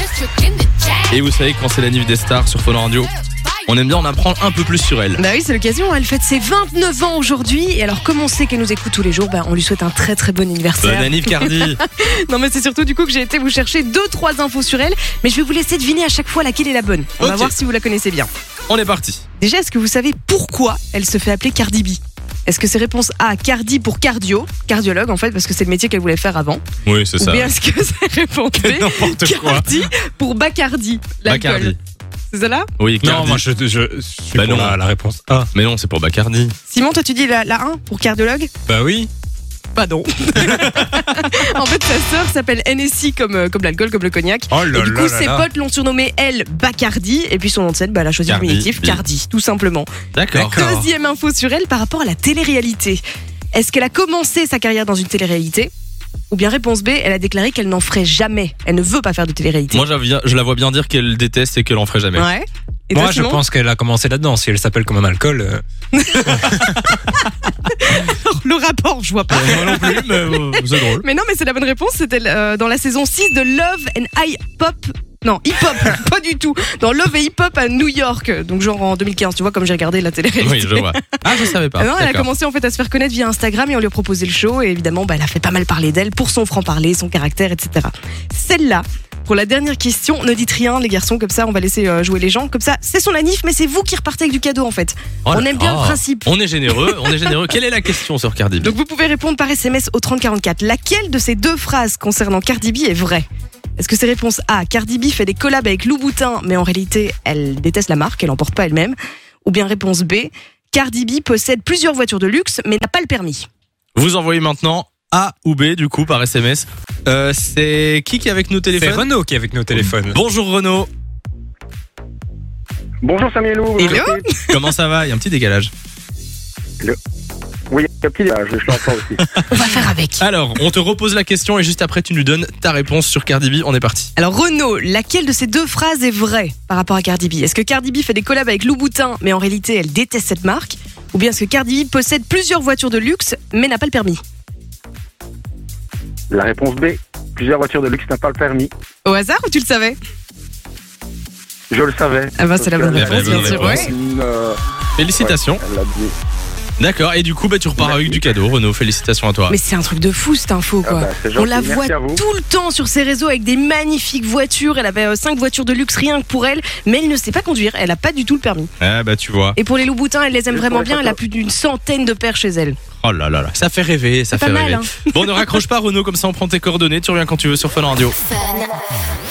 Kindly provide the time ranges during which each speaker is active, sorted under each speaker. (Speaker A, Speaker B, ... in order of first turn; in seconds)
Speaker A: 1.1-3.1, 3.7-5.2, 10.8-11.8, 17.2-17.5, 18.7-19.2, 26.8-27.5, 31.2-31.8, 32.8-33.4, 34.4-34.8, 35.5-36.5, 48.3-49.0, 50.1-50.8, 59.7-62.3, 69.3-71.0, 80.4-82.3, 95.2-98.7, 113.9-119.1, 119.7-120.9, 123.8-125.7, 129.3-134.1, 152.9-153.9, 155.0-155.6, 156.8-159.6, 168.8-169.6, 173.0-178.2
Speaker B: 5.2-18.3, 19.4-26.6, 27.2-31.7, 32.3-32.7, 36.7-38.5, 39.7-49.9, 50.5-53.0, 53.5-55.7, 56.3-59.8, 62.1-63.4, 65.9-67.1, 67.7-97.3, 98.6-103.2, 103.8-113.5, 123.8-124.5, 129.5-130.2, 134.2-144.2, 149.0-150.0, 152.4-153.9, 159.5-168.7, 169.6-172.8, 174.3-175.4
Speaker C: 28.6-29.7, 33.0-35.5, 38.7-39.1, 40.5-40.9, 44.5-45.5, 50.3-50.8, 62.9-65.6, 66.3-66.6, 118.8-120.2
Speaker D: 123.0-124.3, 127.7-129.2, 146.3-148.7, 151.7-154.6, 155.2-156.1, 157.8-158.2, 160.8-162.2, 170.5-171.2